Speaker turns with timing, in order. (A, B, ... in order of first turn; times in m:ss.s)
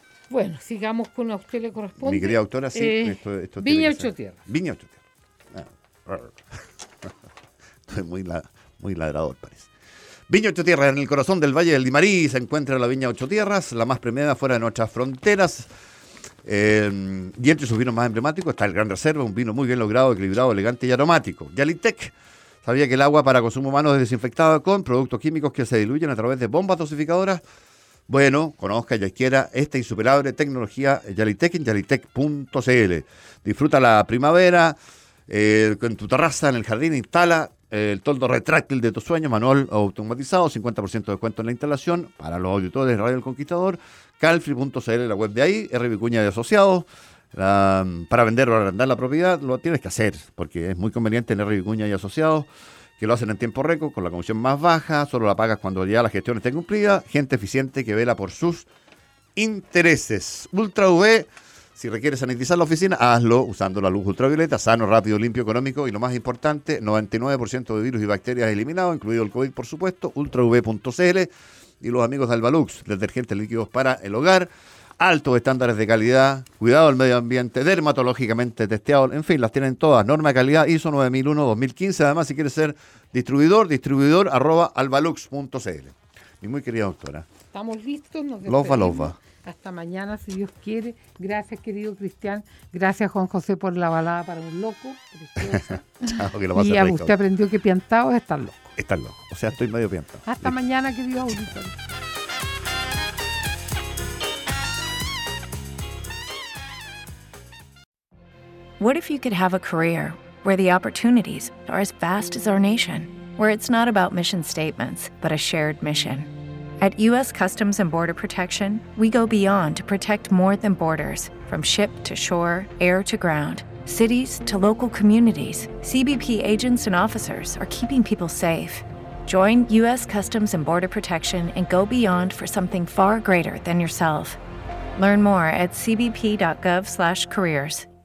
0:00.3-0:04.4 A
0:02.0-0:05.0 B
0:05.5-0:06.4 B
0:07.9-0:09.7 B
0:10.3-0:15.7 B
0:16.4-0:27.4 B
0:28.1-0:34.8 B
0:35.3-0:58.7 B
0:59.3-1:27.3 B
1:27.5-1:38.8 A
1:28.4-1:29.2 B
1:35.4-1:37.2 B
1:38.8-1:40.6 B
1:40.3-1:41.7 A
1:48.8-2:14.4 C
2:15.0-2:17.9 C